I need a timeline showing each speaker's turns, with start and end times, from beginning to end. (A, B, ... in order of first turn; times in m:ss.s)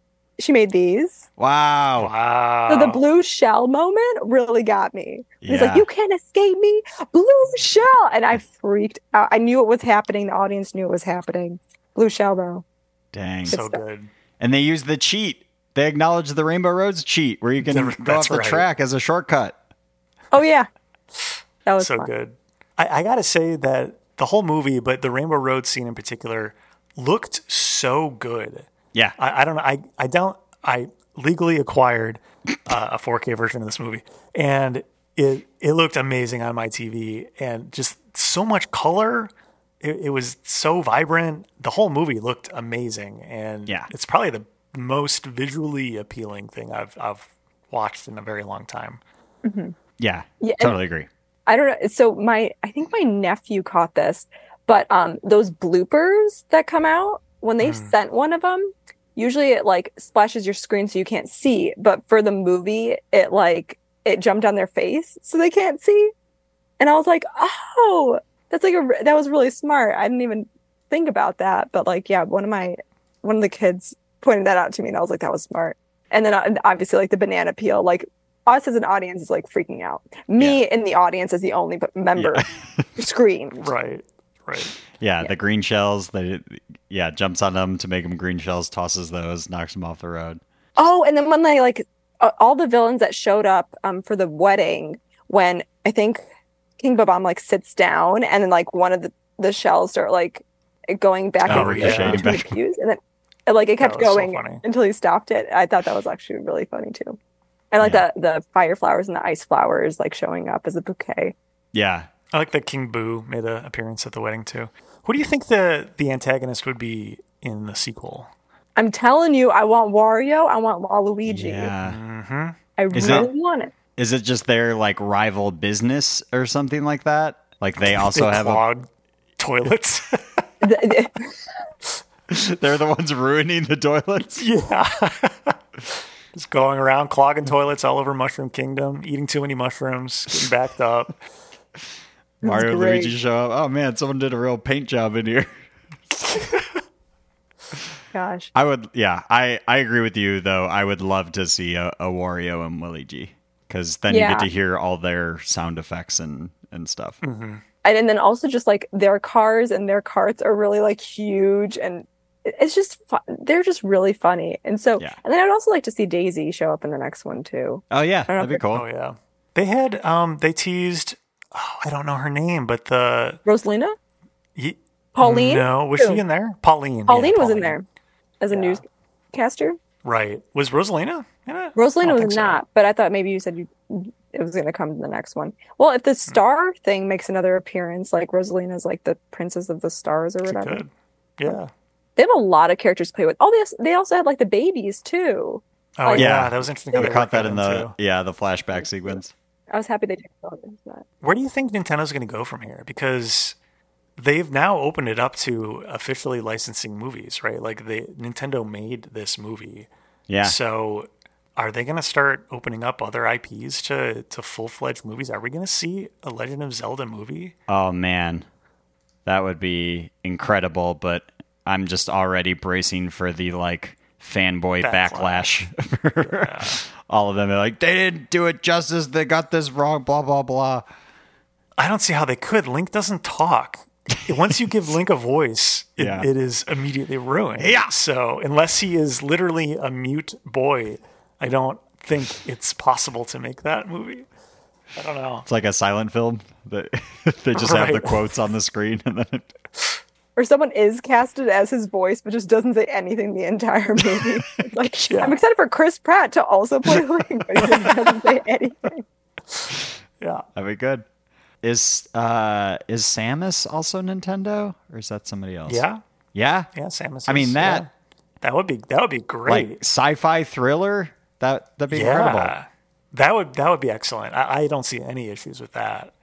0:00.4-0:01.2 A
0:01.4-0:02.1 B
0:02.0-0:03.0 C
0:02.7-0:12.6 A
0:05.4-0:05.8 B
0:13.1-0:13.6 B
0:13.5-0:13.8 A
0:13.5-0:14.1 C
0:14.4-0:19.6 B
0:17.6-0:18.6 C
0:20.3-0:20.7 A
0:21.6-0:22.1 A
0:21.8-0:49.0 C
0:49.4-0:49.7 A
0:50.0-0:51.1 B
0:50.4-0:50.8 A
0:51.5-1:06.1 A
0:57.6-0:57.9 C
1:06.8-1:22.4 A
1:22.2-1:22.9 B
1:23.0-1:23.7 A
1:23.6-1:24.7 C
1:25.0-1:30.4 B
1:30.8-1:36.2 A
1:36.8-1:47.2 A
1:41.4-1:42.5 B
1:41.5-1:42.3 C
1:43.8-1:44.6 C
1:47.7-1:51.3 A
1:51.7-1:52.1 B
1:52.3-1:58.3 C
1:58.8-2:01.7 A
2:01.2-2:02.0 B
2:01.8-2:03.3 C
2:02.8-2:03.7 A
2:02.9-2:03.3 B
2:04.0-2:08.6 B
2:07.8-2:10.4 C
2:10.6-2:11.3 A
2:12.3-2:14.5 B
2:14.4-2:15.6 C
2:16.3-2:21.2 C
2:22.4-2:25.5 B
2:22.4-2:23.1 A
2:28.1-2:28.5 A
2:28.5-2:37.2 B
2:34.1-2:34.5 A
2:37.2-2:37.6 C
2:37.8-2:48.6 A
2:47.9-2:48.8 B
2:48.7-2:53.4 C
2:53.4-2:53.9 A
2:54.6-2:57.8 C
2:55.2-2:56.2 A
2:57.1-2:57.8 A
2:58.4-2:58.8 A
2:58.5-2:58.8 C
2:59.3-2:59.8 A
3:00.0-3:02.6 C
3:01.8-3:10.8 A
3:10.4-3:11.7 C
3:12.2-3:16.3 A
3:16.0-3:17.9 C
3:16.1-3:19.3 B
3:19.7-3:21.0 A
3:21.2-3:23.6 C
3:24.2-3:29.9 C
3:30.3-3:30.6 B
3:30.4-3:37.5 C
3:37.7-3:38.4 B
3:39.2-3:50.8 B
3:44.8-3:45.7 C
3:46.2-3:46.8 C
3:51.8-4:04.2 C
3:56.0-3:56.3 B
3:57.6-3:57.9 B
4:05.0-4:05.4 C
4:05.4-4:09.5 B
4:07.6-4:08.3 C
4:10.4-4:19.0 A
4:15.1-4:15.4 C
4:17.6-4:17.9 C
4:20.2-4:20.5 C
4:20.5-4:21.0 B
4:21.6-4:26.7 B
4:25.7-4:26.0 C
4:26.7-4:27.9 C
4:27.3-4:27.9 B
4:28.4-4:29.8 C
4:29.4-4:32.5 B
4:31.9-4:36.1 C